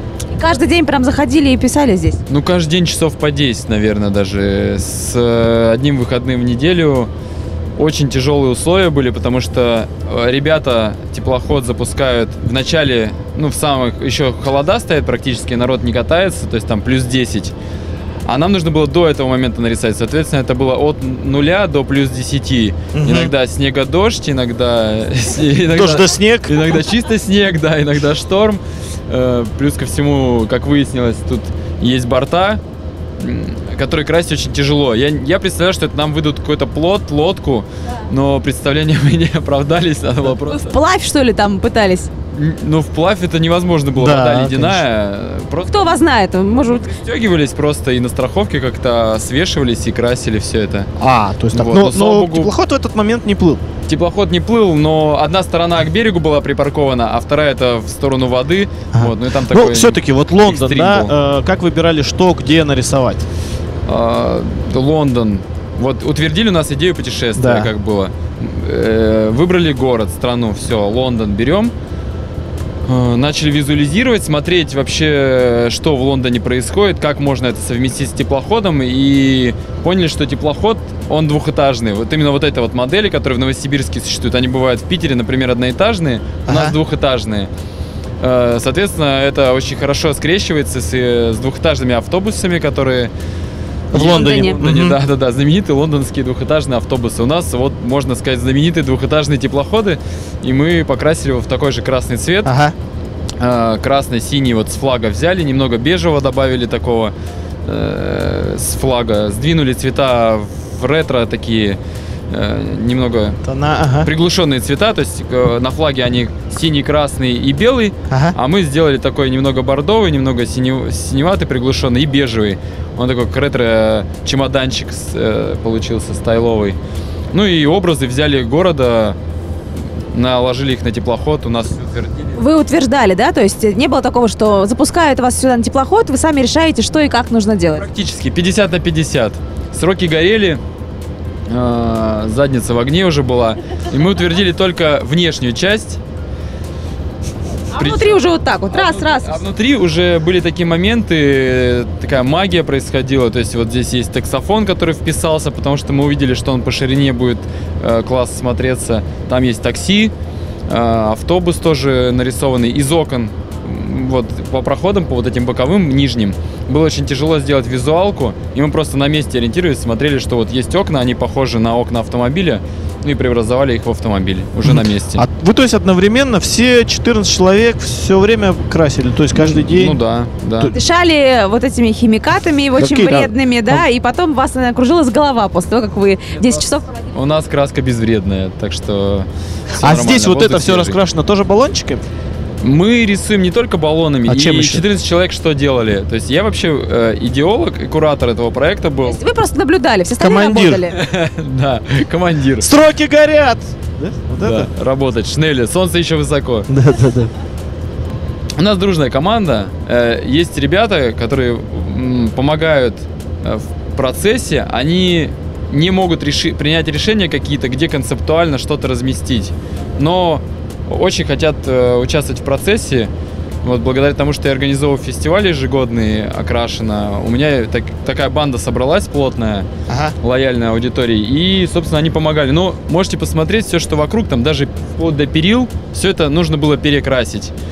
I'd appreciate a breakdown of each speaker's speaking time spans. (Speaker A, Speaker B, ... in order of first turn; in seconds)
Speaker A: 0.3-2.2, 40.5-42.1, 45.6-46.9, 94.0-94.6, 132.3-137.8, 147.7-149.4, 180.7-186.9, 199.1-201.0
Speaker B: 2.3-7.1, 7.8-17.5, 18.3-32.6, 33.2-40.8, 42.3-50.9, 51.5-52.5, 53.9-61.1, 63.9-71.7, 72.9-87.5, 88.2-93.1, 93.9-102.5, 103.4-107.1, 107.7-111.8, 112.3-113.4, 114.0-126.8, 127.3-129.2, 130.1-132.4, 137.7-140.6, 141.5-146.0, 147.8-160.1, 160.7-175.2, 179.3-180.7, 187.1-191.0, 192.6-199.2, 200.9-202.7, 204.4-206.7, 208.6-223.1, 223.6-229.7, 230.2-237.5
Speaker C: 22.9-23.3, 25.7-26.6, 44.0-44.8, 51.0-53.6, 58.9-63.2, 67.4-67.7, 86.5-86.8, 93.9-95.0, 102.5-102.7, 113.4-114.1, 118.1-118.4, 174.6-180.0, 182.8-183.8, 189.7-192.0, 194.3-194.8, 200.2-200.8, 202.6-204.7, 206.7-207.3, 229.9-230.2